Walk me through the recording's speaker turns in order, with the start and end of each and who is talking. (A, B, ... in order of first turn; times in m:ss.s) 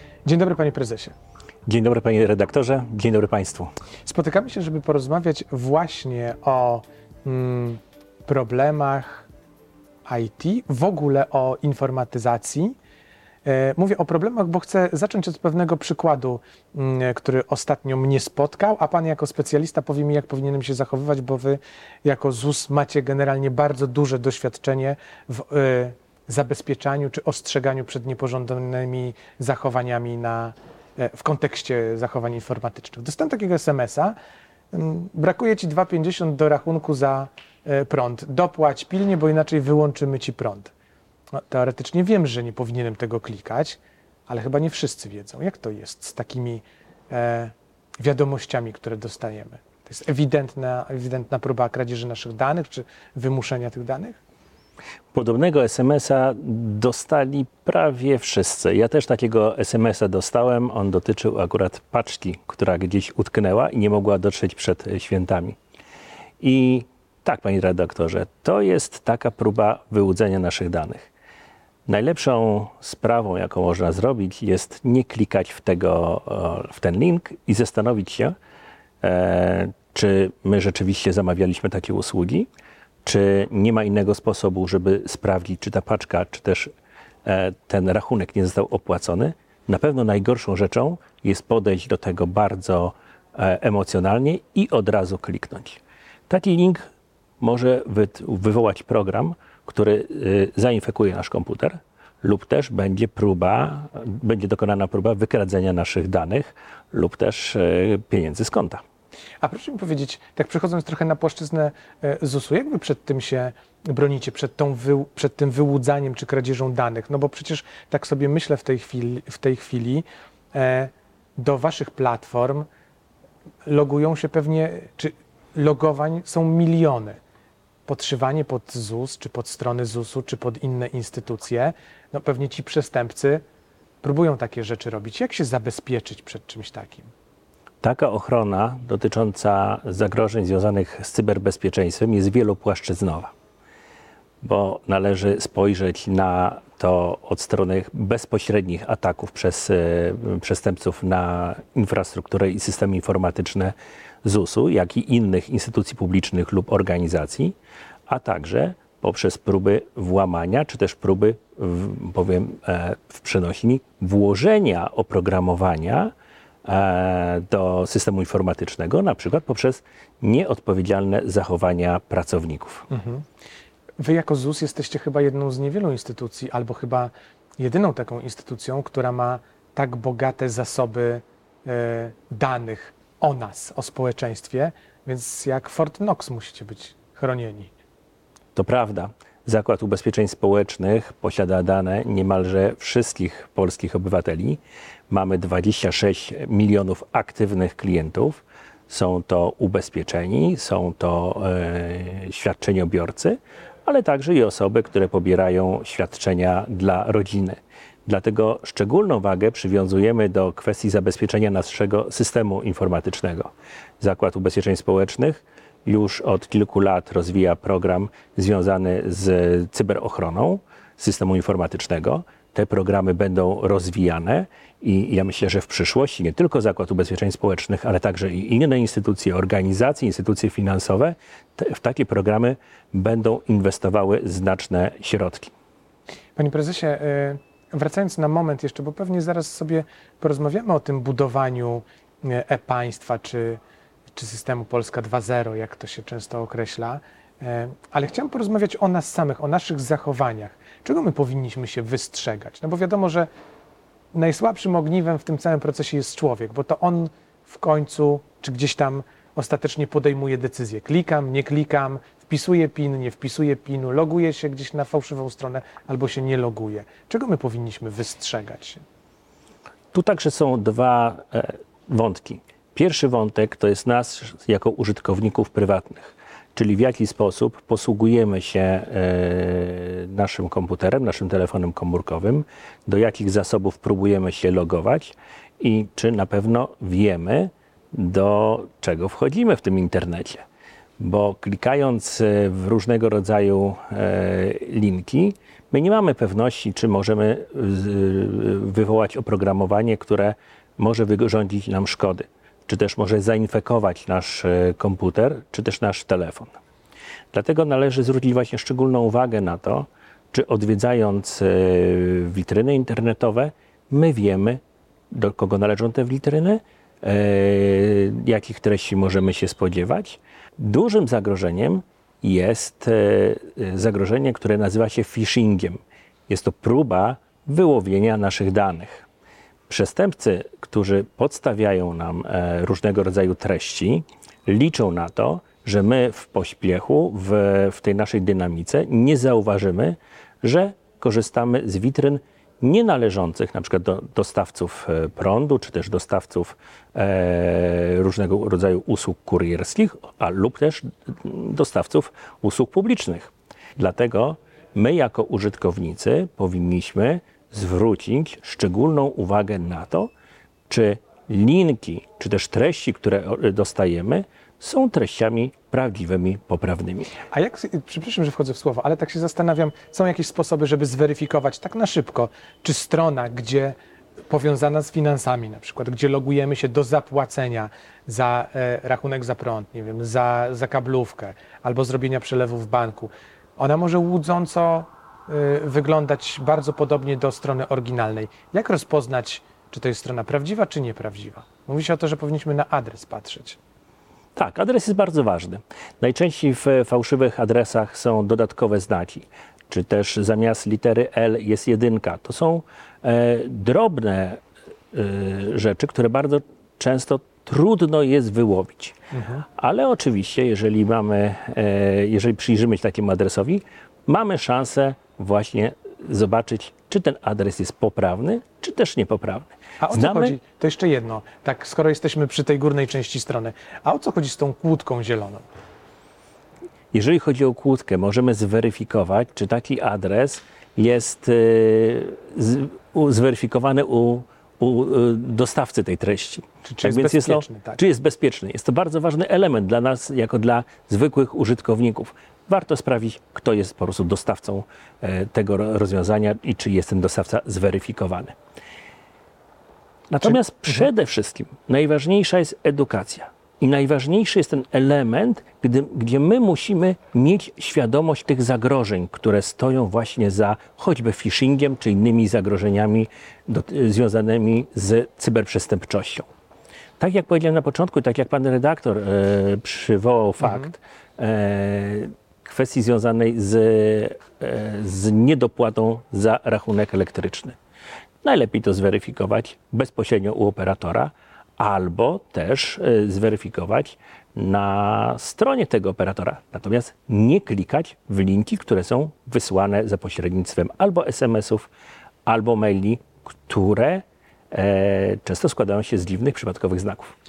0:00.2-0:01.1 A
0:01.6-0:03.7 B
0:04.0-0:09.3 A
0:10.0-0:12.8 A
0:13.4-0:34.1 A
0:34.7-0:40.7 A
0:41.5-0:54.2 A
0:55.1-1:05.6 B
1:06.4-1:11.1 B
1:11.9-1:18.3 B
1:19.0-1:22.5 B
1:23.0-1:26.7 B
1:27.2-1:36.8 B
1:37.4-1:48.8 B
1:49.4-2:02.7 A
2:03.6-2:07.2 A
2:07.9-2:13.4 A
2:14.0-2:17.1 A
2:17.8-2:23.3 B
2:24.4-2:37.5 B
2:38.1-2:46.1 B
2:46.6-2:52.9 B
2:52.9-2:53.2 A
2:54.0-3:07.7 A
3:08.5-3:55.5 B
3:56.4-4:03.6 A
4:04.1-4:13.3 A
4:14.1-4:28.8 A
4:29.9-4:50.4 B
4:51.0-5:06.5 B
5:07.3-5:29.1 B
5:29.7-6:00.1 B
6:00.7-6:07.1 B
6:07.3-6:13.8 A
6:14.3-6:33.6 A
6:34.4-6:44.4 B
6:44.9-6:49.0 B
6:49.1-6:49.4 A
6:49.6-7:00.4 B
6:59.8-7:05.4 A
7:06.9-7:28.3 B
7:16.6-7:17.8 A
7:30.1-7:46.3 B
7:47.0-7:57.6 B
7:58.2-8:11.7 B
8:12.2-8:17.1 B